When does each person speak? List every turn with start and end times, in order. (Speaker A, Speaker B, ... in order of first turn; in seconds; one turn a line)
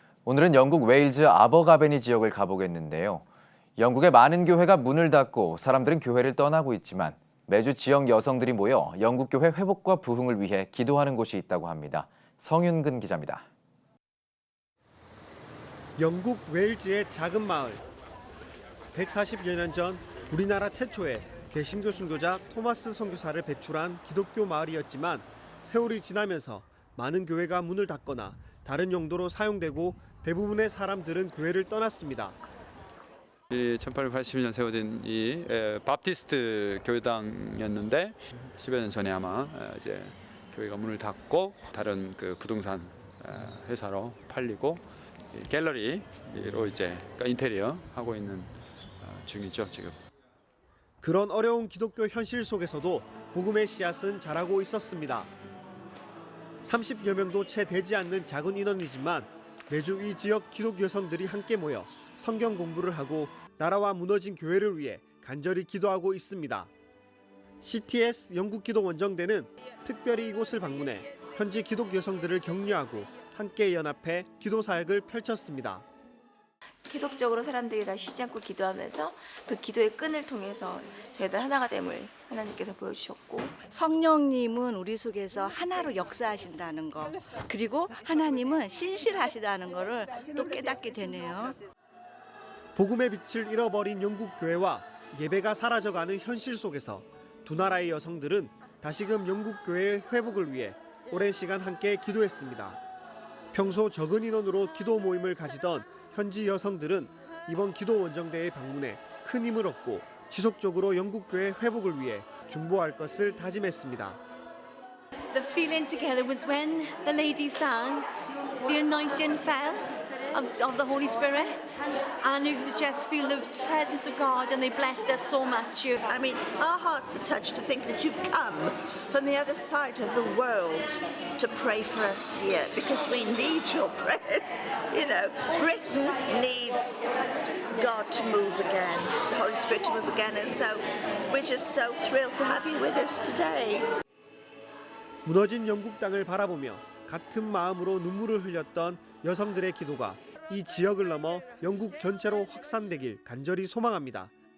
Speaker A: 0.2-3.2
Speaker A: 3.8-13.4
Speaker B: 16.0-17.8
Speaker B: 18.9-32.4
Speaker C: 33.5-50.0
Speaker B: 51.0-55.3
Speaker B: 56.6-66.7
Speaker B: 67.6-75.8
Speaker D: 76.9-83.6
Speaker E: 83.7-91.5
Speaker B: 92.8-102.8
Speaker B: 103.5-114.2
Speaker F: 115.3-118.1
Speaker F: 118.6-121.7
Speaker F: 122.2-126.2
Speaker G: 126.1-137.1
Speaker G: 137.7-143.9
Speaker B: 145.2-154.3